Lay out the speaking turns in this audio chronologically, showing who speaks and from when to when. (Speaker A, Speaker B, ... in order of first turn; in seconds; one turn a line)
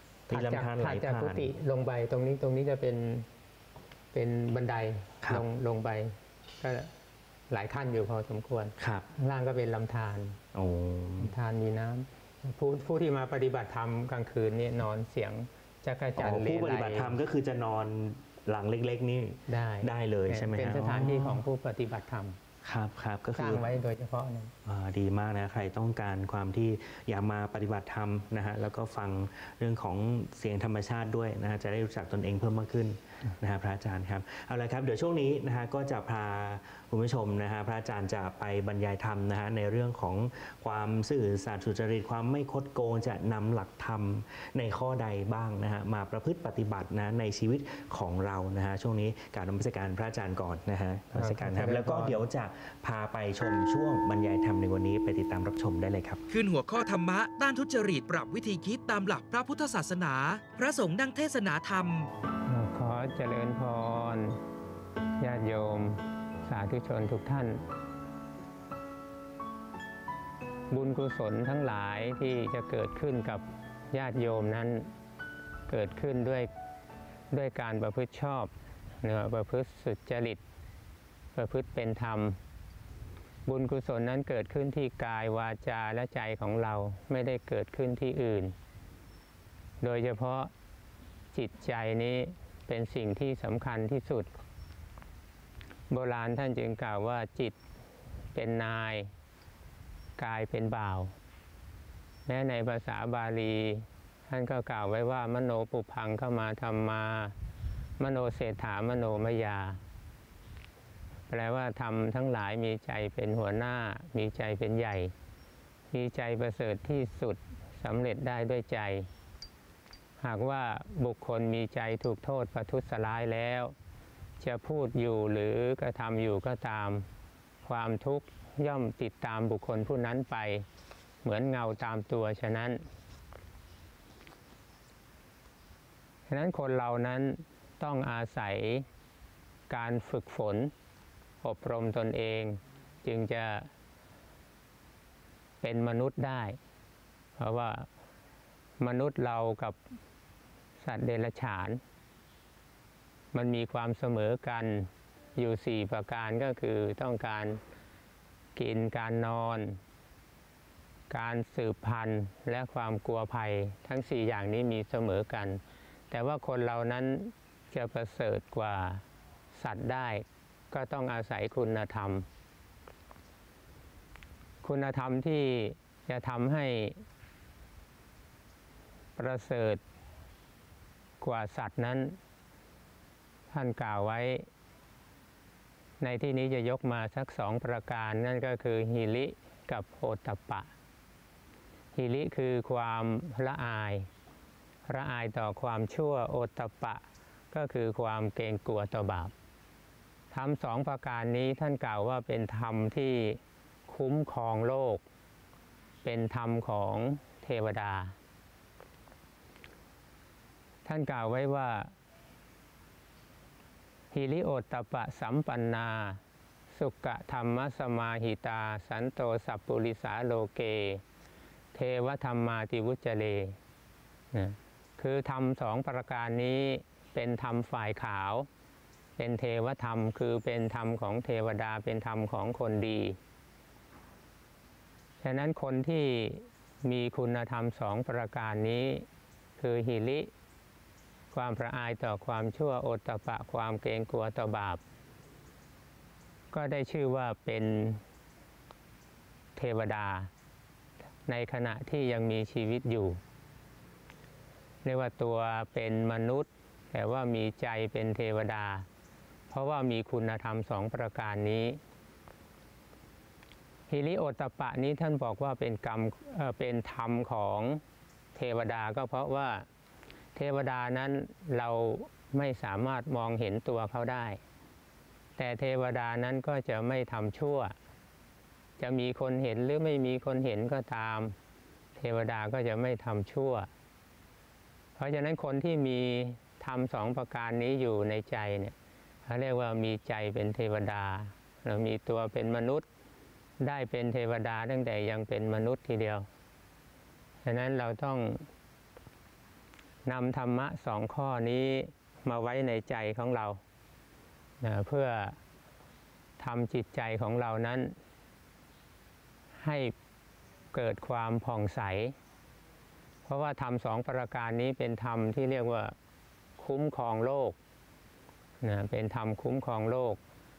Speaker A: 0.3-3.3
Speaker B: 0.3-1.5
Speaker A: 4.1-6.9
Speaker A: 7.5-10.4
Speaker B: 8.8-9.1
Speaker B: 10.5-11.3
Speaker A: 11.2-17.2
Speaker B: 16.2-21.4
Speaker A: 19.5-22.4
Speaker B: 22.6-23.7
Speaker A: 23.4-24.5
Speaker B: 24.6-56.2
Speaker A: 51.1-52.2
Speaker C: 56.3-62.1
Speaker A: 62.5-64.4
Speaker A: 65.2-67.6
Speaker A: 70.7-74.9
Speaker A: 75.7-76.5
Speaker A: 77.3-80.4
Speaker A: 81.3-82.4
Speaker A: 83.5-88.5
Speaker A: 89.8-90.5
Speaker A: 91.3-94.3
Speaker A: 95.9-97.6
Speaker A: 98.3-99.1
Speaker A: 100.2-101.1
Speaker A: 102.3-107.4
Speaker A: 108.0-109.8
Speaker A: 111.3-115.1
Speaker A: 115.9-119.1
Speaker A: 120.2-123.8
Speaker A: 124.4-127.1
Speaker A: 127.6-130.7
Speaker A: 131.2-132.8
Speaker A: 136.3-138.9
Speaker A: 139.7-140.7
Speaker A: 141.4-143.7
Speaker A: 145.6-146.6
Speaker A: 147.4-147.9
Speaker A: 148.8-149.8
Speaker A: 150.8-151.8
Speaker A: 153.3-157.6
Speaker A: 158.6-159.8
Speaker A: 161.1-169.0
Speaker A: 169.5-172.3
Speaker A: 174.6-177.0
Speaker A: 179.2-179.8
Speaker A: 181.2-182.2
Speaker A: 183.5-184.5
Speaker A: 186.0-190.7
Speaker A: 191.9-194.1
Speaker A: 194.9-199.3
Speaker A: 200.3-205.0
Speaker A: 206.0-208.2
Speaker A: 210.8-211.9
Speaker A: 214.1-216.2
Speaker A: 216.7-221.0
Speaker A: 221.7-223.6
Speaker A: 224.3-228.5
Speaker A: 229.2-233.2
Speaker A: 235.2-239.1
Speaker A: 239.6-240.3
Speaker A: 241.3-244.8
Speaker A: 246.5-248.0
Speaker A: 249.6-250.3
Speaker A: 251.3-253.2
Speaker A: 254.8-258.9
Speaker A: 259.5-261.8
Speaker A: 263.9-267.8
Speaker A: 268.4-269.7
Speaker A: 270.4-274.4
Speaker A: 275.4-277.8
Speaker A: 278.8-281.4
Speaker A: 282.0-283.7
Speaker A: 285.0-288.8
Speaker A: 289.3-292.9
Speaker A: 293.6-296.3
Speaker A: 297.5-298.5
Speaker A: 300.1-303.6
Speaker A: 304.6-305.4
Speaker A: 306.4-308.0
Speaker A: 309.6-309.9
Speaker A: 310.7-312.2
Speaker A: 313.3-315.9
Speaker A: 316.6-317.6
Speaker A: 318.6-320.2